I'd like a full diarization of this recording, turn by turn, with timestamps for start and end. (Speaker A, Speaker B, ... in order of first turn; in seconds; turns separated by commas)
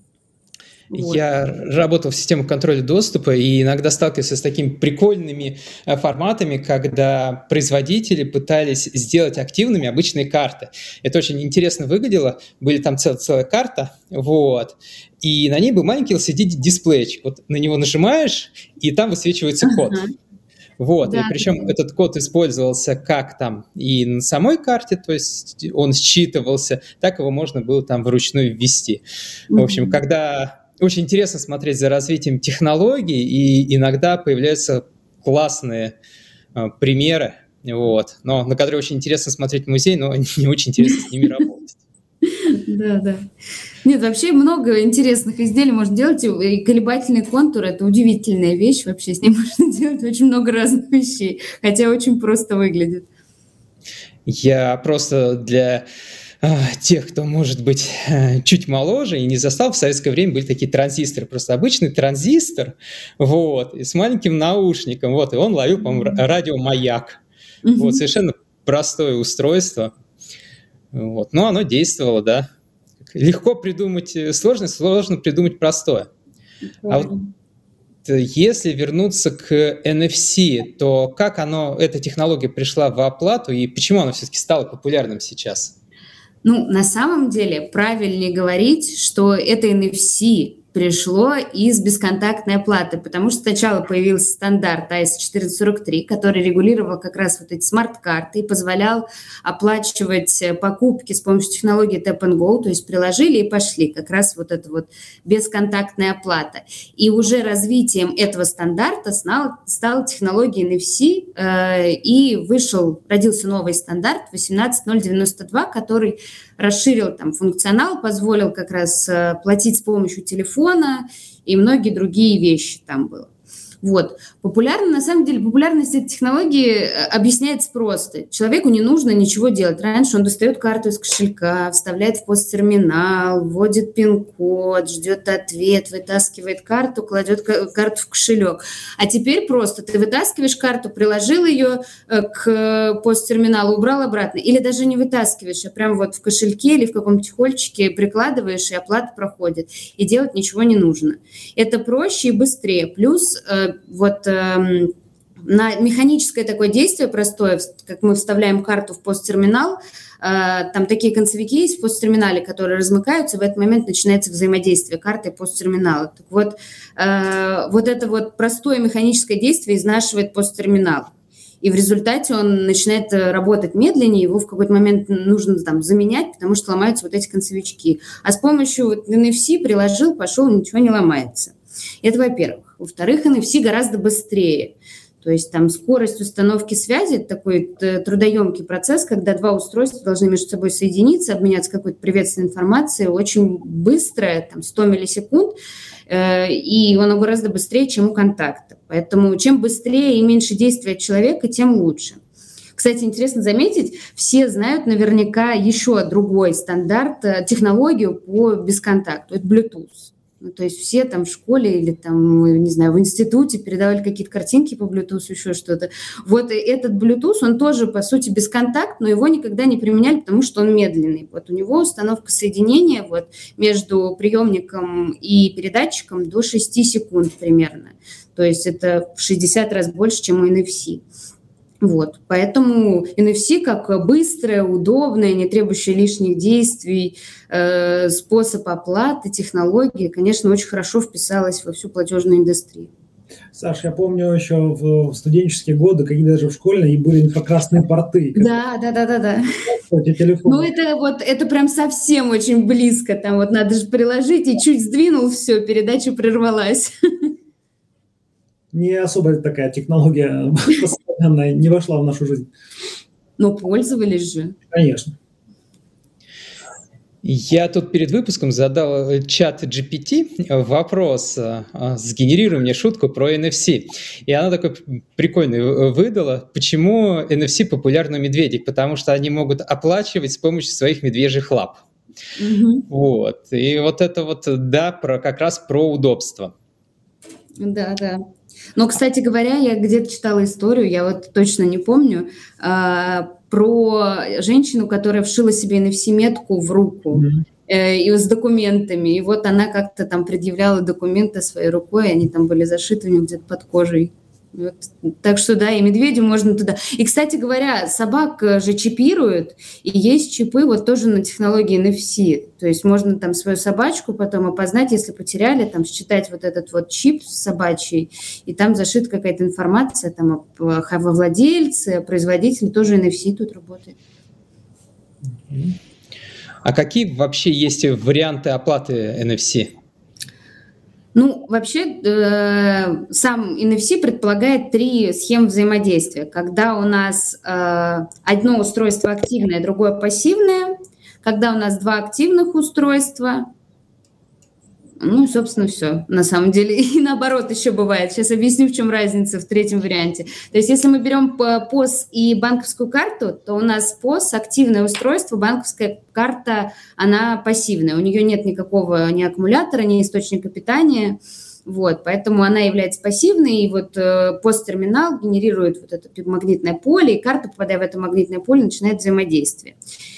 Speaker A: 0.9-1.2, Speaker B: 0.9-20.0, Speaker A: 19.6-20.1, Speaker B: 20.8-29.0, Speaker A: 21.0-21.7, Speaker A: 29.5-29.9, Speaker B: 29.6-35.9, Speaker B: 36.5-41.8, Speaker A: 42.3-43.3, Speaker A: 43.8-53.0, Speaker B: 54.2-55.8, Speaker B: 56.4-67.2, Speaker A: 67.6-68.0, Speaker B: 67.8-69.9, Speaker B: 70.9-72.5, Speaker B: 73.1-76.1, Speaker A: 76.8-77.3, Speaker B: 78.0-85.7, Speaker A: 86.4-123.3, Speaker A: 123.8-154.9, Speaker A: 155.4-195.6, Speaker A: 196.1-202.2, Speaker A: 202.8-231.0, Speaker A: 231.8-242.9, Speaker C: 243.5-248.5, Speaker A: 248.3-249.5, Speaker C: 249.7-250.7, Speaker A: 250.4-257.3, Speaker C: 258.7-262.5, Speaker A: 263.4-264.6, Speaker C: 264.7-265.1, Speaker B: 267.2-281.8, Speaker A: 282.4-282.9, Speaker B: 282.9-286.5, Speaker A: 287.6-288.2, Speaker A: 288.8-324.0, Speaker C: 297.1-297.4, Speaker B: 326.6-329.7, Speaker A: 331.1-343.5, Speaker A: 345.0-369.8